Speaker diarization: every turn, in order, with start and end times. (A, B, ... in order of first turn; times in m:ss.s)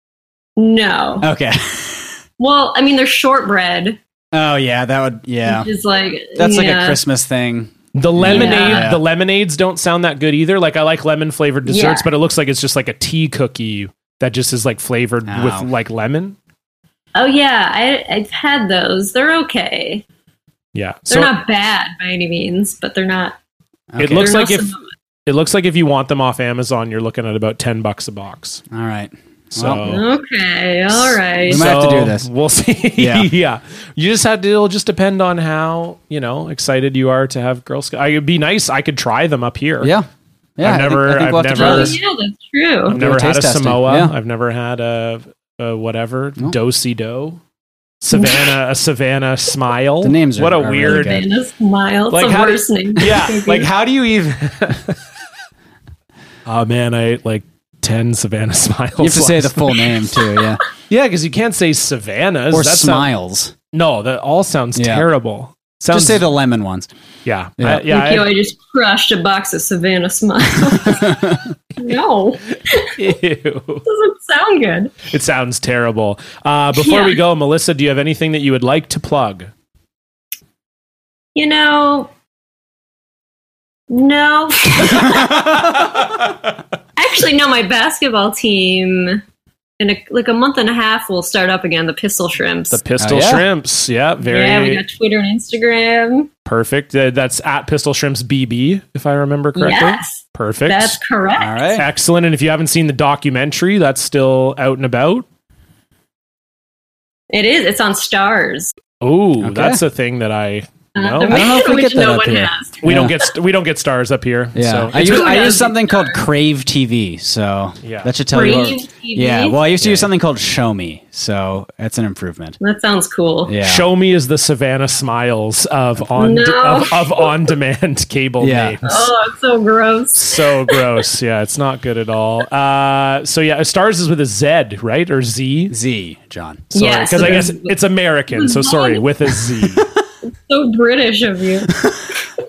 0:00.6-0:01.3 A
0:01.2-0:02.1 B
0:02.4-0:04.0 A
0:04.3-0:05.7 B
0:05.4-0:07.0 A
0:06.3-0:09.0 B
0:07.9-0:16.4 C
0:08.3-0:08.9 A
0:11.6-0:12.1 A
0:15.2-0:15.7 B
0:17.1-0:20.0 A
0:20.7-0:21.3 C
0:21.1-0:23.4 A
0:23.9-0:24.3 B
0:24.0-0:28.6 C
0:24.1-0:24.8 A
0:28.7-0:29.8 B
0:29.5-0:30.0 C
0:29.8-0:31.7 A
0:31.4-0:39.9 C
0:31.4-0:32.3 B
0:33.0-0:33.3 B
0:39.8-0:42.0 B
0:40.6-0:42.0 C
0:41.5-0:43.0 A
0:42.9-0:47.4 C
0:42.9-0:44.1 B
0:48.0-0:51.2 C
0:48.1-0:48.5 A
0:50.0-0:51.2 B
0:50.8-0:53.7 A
0:52.1-0:55.0 C
0:56.4-0:59.9 C
0:59.0-1:00.6 B
1:00.9-1:03.1 C
1:02.5-1:03.5 B
1:03.7-1:06.3 C
1:04.7-1:05.0 B
1:05.9-1:06.9 B
1:07.2-1:08.3 C
1:07.6-1:07.9 B
1:07.9-1:11.2 A
1:10.9-1:11.4 B
1:11.8-1:13.0 A
1:12.9-1:13.8 C
1:13.8-1:15.0 A
1:15.1-1:19.5 C
1:16.7-1:17.2 A
1:21.3-1:22.1 A
1:23.9-1:25.6 A
1:25.0-1:26.0 B
1:25.8-1:26.2 C
1:27.0-1:29.2 A
1:29.8-1:32.8 A
1:32.7-1:34.8 C
1:33.0-1:33.4 B
1:34.2-1:36.3 A
1:36.4-1:41.0 C
1:39.6-1:41.8 A
1:41.4-1:41.9 B
1:41.8-1:45.2 C
1:47.3-1:48.7 A
1:49.0-1:51.4 C
1:49.4-1:49.8 B
1:50.9-1:52.8 A
1:51.3-1:53.2 B
1:52.8-1:55.6 C
1:54.5-2:02.6 B
1:54.9-1:56.2 A
1:57.8-1:58.1 C
1:58.3-1:59.6 A
1:59.8-2:00.1 C
2:02.6-2:03.5 A
2:03.4-2:03.8 B
2:03.6-2:09.1 C
2:06.2-2:07.3 A
2:08.4-2:08.8 B
2:08.8-2:10.8 A
2:10.2-2:15.7 C
2:15.7-2:16.7 B
2:16.7-2:19.8 C
2:16.7-2:17.7 A
2:18.3-2:19.0 A
2:20.3-2:21.7 A